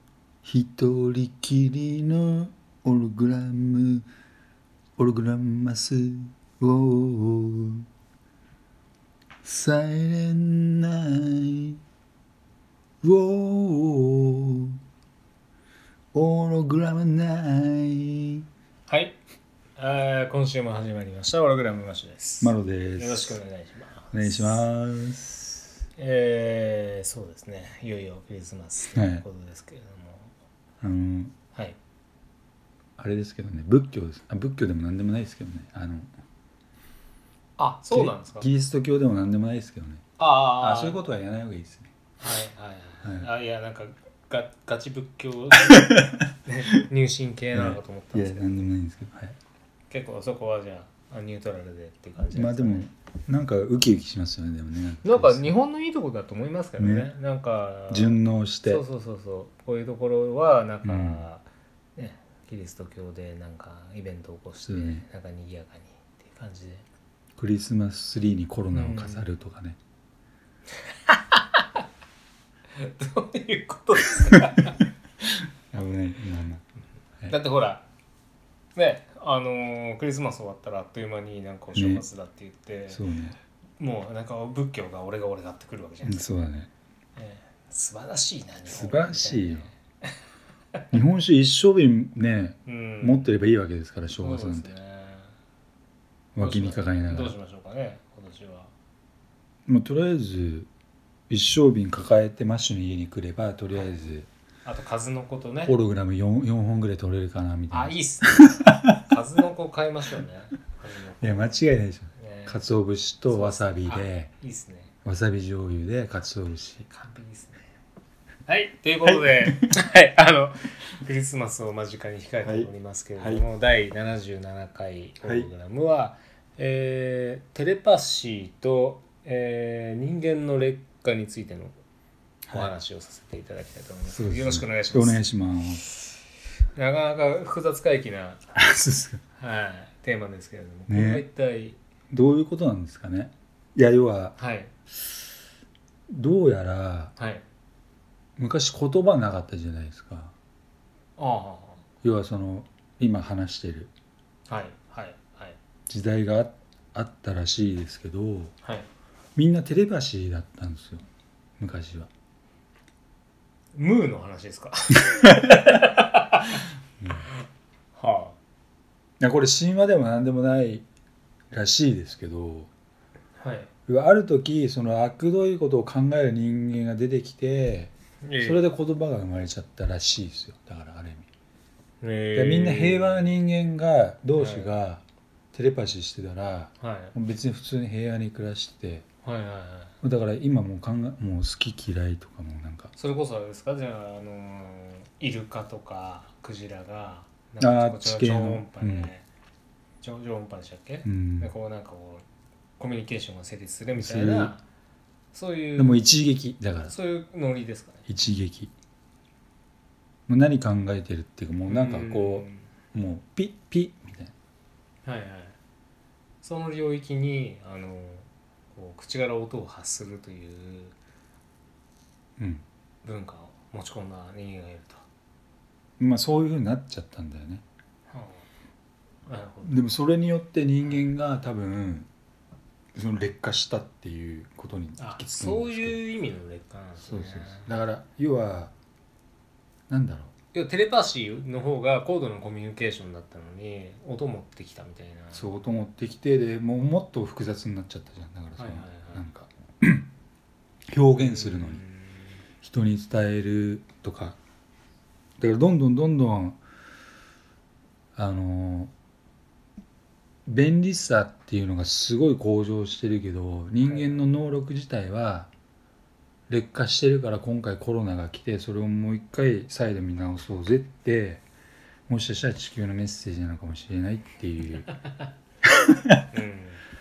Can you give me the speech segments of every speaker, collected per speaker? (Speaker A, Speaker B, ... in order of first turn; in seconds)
Speaker A: 0.5-4.1, 5.0-7.8, 9.4-11.8, 13.0-14.8, 16.1-18.5, 22.4-23.4, 24.1-25.6, 28.9-29.2, 30.8-31.3, 33.0-36.1, 37.9-40.1, 40.6-41.9, 45.5-46.3, 47.5-49.4, 52.3-55.5, 56.8-57.1, 57.9-58.8, 60.8-61.2, 64.7-65.0, 67.4-69.8, 75.2-76.6, 81.8-82.0, 82.9-83.4, 86.0-86.7, 88.7-89.7, 90.9-94.7, 96.3-97.4, 99.7-100.7, 101.3-104.3, 105.7-109.0, 111.2-114.3, 115.0-116.9, 119.0-119.7, 122.4-123.5, 125.2-125.5, 134.1-135.9, 138.5-139.2, 140.9-141.2, 142.1-144.4, 146.1-147.1, 148.4-150.3, 152.0-153.9, 155.9-158.5, 159.3-161.0, 161.6-162.1, 167.0-167.3, 169.2-170.8, 171.5-172.7, 173.9-181.3, 182.3-189.0, 190.0-192.9, 197.6-199.1, 201.0-201.5, 204.0-204.5, 205.8-206.9, 208.1-208.7, 210.3-214.3, 222.4-222.6, 226.0-227.6, 229.6-232.1, 232.9-236.0, 237.0-238.7, 239.9-240.3, 245.3-250.1, 250.9-251.8, 252.6-254.4, 255.4-256.6, 258.2-258.9, 260.5-265.5, 266.5-271.4, 272.1-274.9, 275.6-276.2
Speaker B: 18.9-19.2, 19.8-24.6, 25.9-30.3, 37.6-38.5, 40.2-41.0, 42.2-48.6, 49.9-52.9, 55.0-61.5, 62.0-66.8, 68.7-69.3, 71.1-71.6, 72.8-74.8, 77.3-77.8, 78.8-83.0, 83.8-86.3, 87.2-90.1, 92.7-93.3, 94.2-95.3, 96.4-98.7, 104.7-105.8, 107.7-111.6, 112.2-112.7, 113.3-114.9, 116.9-117.7, 118.5-131.8, 132.5-135.2, 136.7-138.4, 139.4-141.8, 144.4-144.7, 147.2-147.4, 151.2-151.8, 154.5-155.6, 163.7-166.6, 167.9-168.4, 173.4-173.7, 178.2-178.6, 182.0-183.3, 184.4-184.7, 186.8-187.1, 189.2-189.9, 192.9-199.2, 200.0-202.2, 202.8-204.6, 205.3-206.1, 206.8-208.0, 211.7-212.7, 215.0-215.6, 216.4-220.9, 223.0-225.0, 228.1-228.5, 229.2-229.8, 235.0-237.7, 240.5-245.5, 248.6-249.2, 251.2-252.3, 263.9-264.1, 276.3-276.8